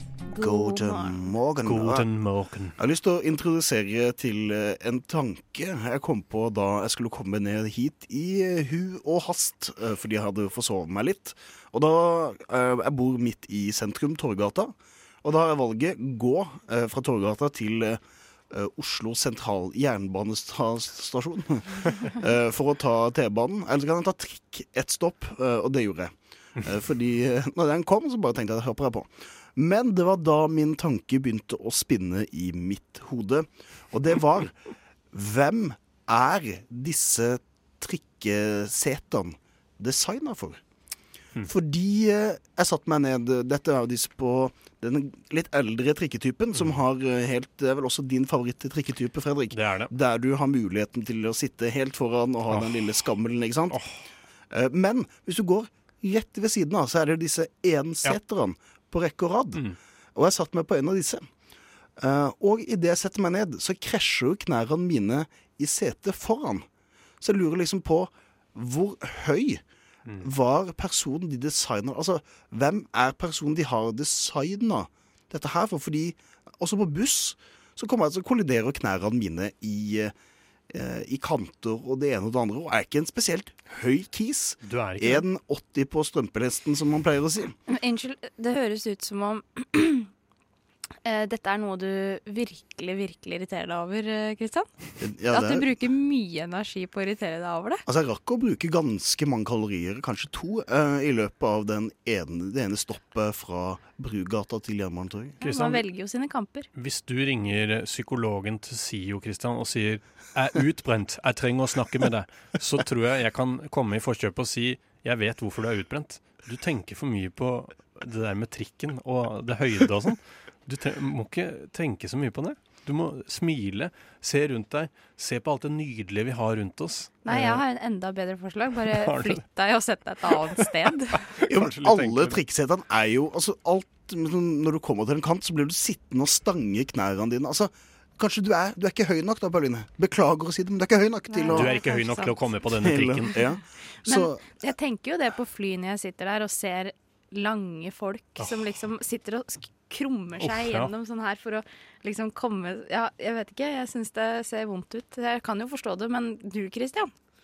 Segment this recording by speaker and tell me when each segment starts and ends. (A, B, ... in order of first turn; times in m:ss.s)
0:00.3-0:01.3 A
0:00.4-0:02.1 B
0:01.6-0:02.7 C
0:02.8-0:18.0 B
0:18.5-0:26.1 B
0:26.6-0:34.5 B
0:35.1-0:40.6 B
0:41.4-0:53.8 B
0:49.5-0:49.9 C
0:52.5-0:52.8 C
0:53.7-0:54.0 C
0:54.5-1:01.2 B
1:02.0-1:06.6 B
1:07.2-1:09.6 B
1:10.2-1:20.1 B
1:20.7-1:27.5 B
1:24.6-1:25.2 C
1:27.7-1:30.1 A
1:31.0-1:34.7 A
1:35.0-1:35.7 B
1:35.3-1:37.8 A
1:37.9-1:45.4 B
1:45.4-1:45.8 C
1:45.4-1:46.7 A
1:46.7-2:07.6 C
2:07.2-2:11.2 A
2:08.9-2:09.4 C
2:11.4-2:12.4 C
2:11.4-2:21.8 B
2:21.3-2:22.5 A
2:21.5-2:23.3 C
2:22.8-2:24.5 B
2:24.0-2:37.1 A
2:30.4-2:30.9 C